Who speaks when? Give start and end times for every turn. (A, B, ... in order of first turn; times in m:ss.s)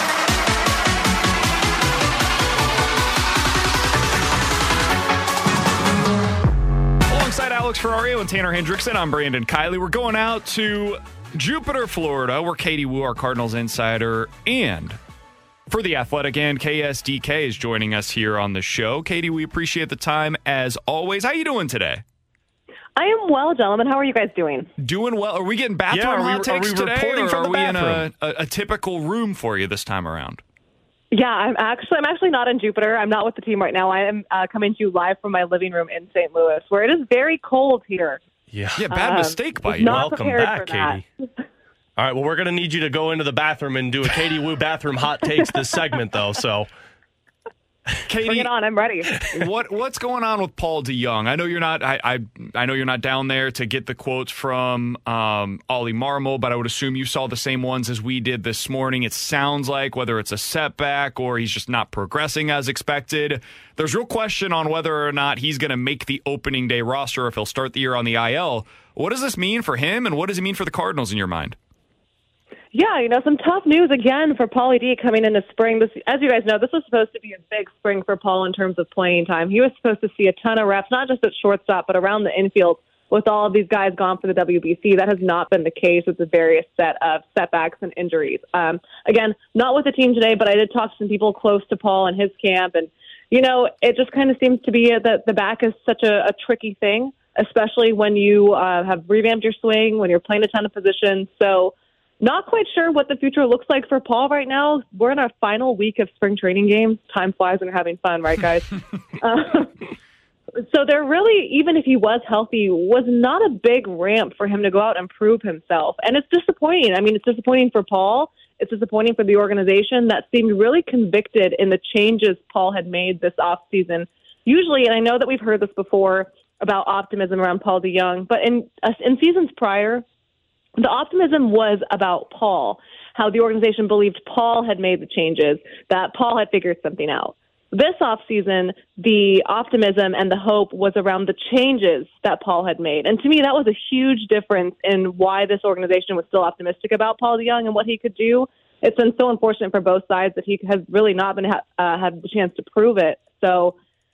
0:07.1-0:15.0 A
0:15.7-0:22.0 A
0:23.0-0:24.7 B
0:24.8-0:30.4 A
0:25.9-0:28.1 C
0:31.1-0:38.2 B
0:38.5-0:38.9 C
0:38.8-0:40.0 A
0:38.9-0:41.0 B
0:39.8-0:41.0 C
0:42.0-0:46.7 C
0:48.1-0:48.5 A
0:48.3-0:49.3 B
0:49.3-1:11.6 A
1:12.7-1:49.8 B
1:50.5-2:10.0 B
2:10.8-2:33.8 B